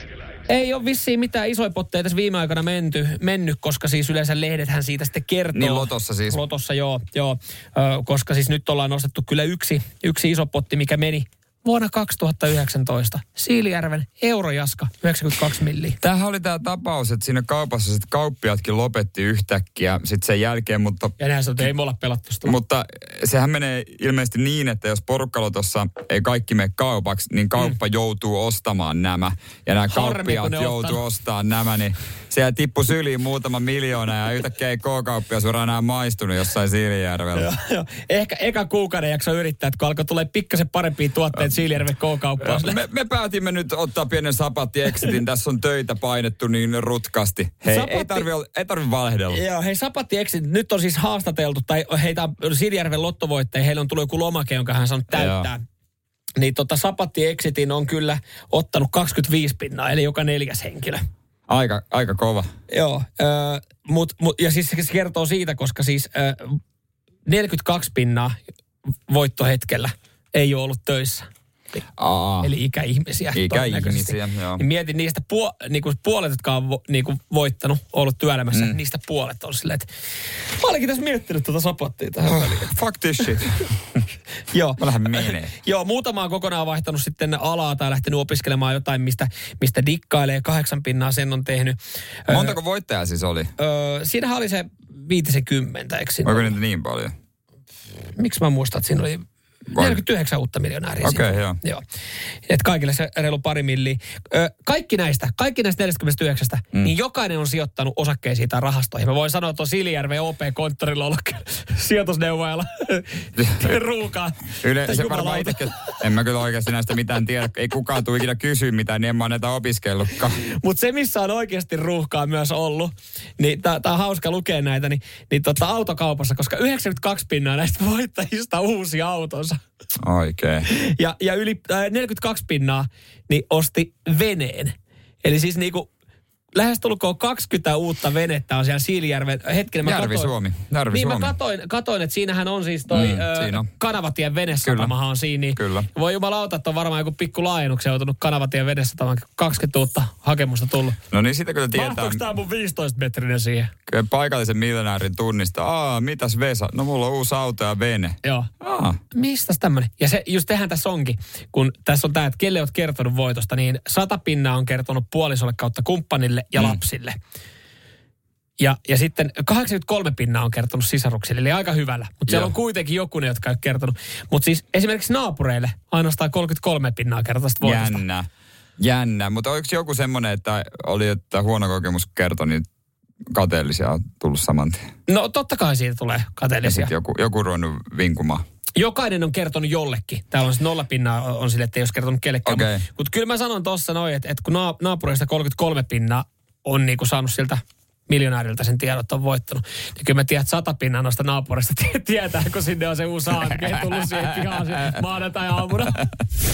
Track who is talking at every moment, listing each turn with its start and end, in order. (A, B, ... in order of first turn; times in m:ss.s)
0:00.5-0:16.0 A
0:05.5-0:06.4 B
0:16.0-0:21.1 B
0:21.2-0:22.6 A
0:22.4-0:37.5 B
0:29.9-0:31.0 A
0:37.4-0:42.8 A
0:42.4-0:49.4 B
0:47.6-0:48.3 A
0:49.3-0:55.6 A
0:55.1-0:55.5 B
0:56.4-1:01.0 A
1:01.5-1:02.5 B
1:02.7-1:06.6 A
1:07.3-1:08.4 A
1:09.1-1:11.3 A
1:12.0-1:12.5 B
1:12.4-1:19.9 A
1:13.3-1:14.6 B
1:18.5-1:18.8 B
1:20.4-1:23.4 A
1:22.3-1:24.0 B
1:24.5-1:32.6 A
1:24.8-1:25.5 B
1:32.3-1:33.5 B
1:33.6-1:36.5 A
1:36.2-1:37.1 B
1:38.2-1:41.8 A
1:39.7-1:40.0 B
1:41.0-1:41.6 B
1:42.5-1:55.9 A
1:53.4-1:53.7 B
1:54.6-2:00.4 B
2:00.6-2:09.6 A
2:10.0-2:10.7 B
2:10.7-2:15.9 A
2:16.5-2:20.3 A
2:19.8-2:21.3 B
2:20.9-2:31.0 A
2:22.9-2:23.7 B
2:24.6-2:24.9 B
2:25.6-2:25.9 B
2:31.1-2:32.2 B
2:31.7-2:33.7 A
2:33.9-2:39.0 B
2:38.2-2:38.5 A
2:39.1-2:47.2 A
2:48.6-2:58.0 A
2:52.3-2:52.5 B
2:57.6-3:02.6 B
3:03.3-3:04.9 B
3:05.1-3:06.9 A
3:06.6-3:08.4 B
3:08.8-3:26.1 A
3:12.4-3:12.8 B
3:23.9-3:24.8 B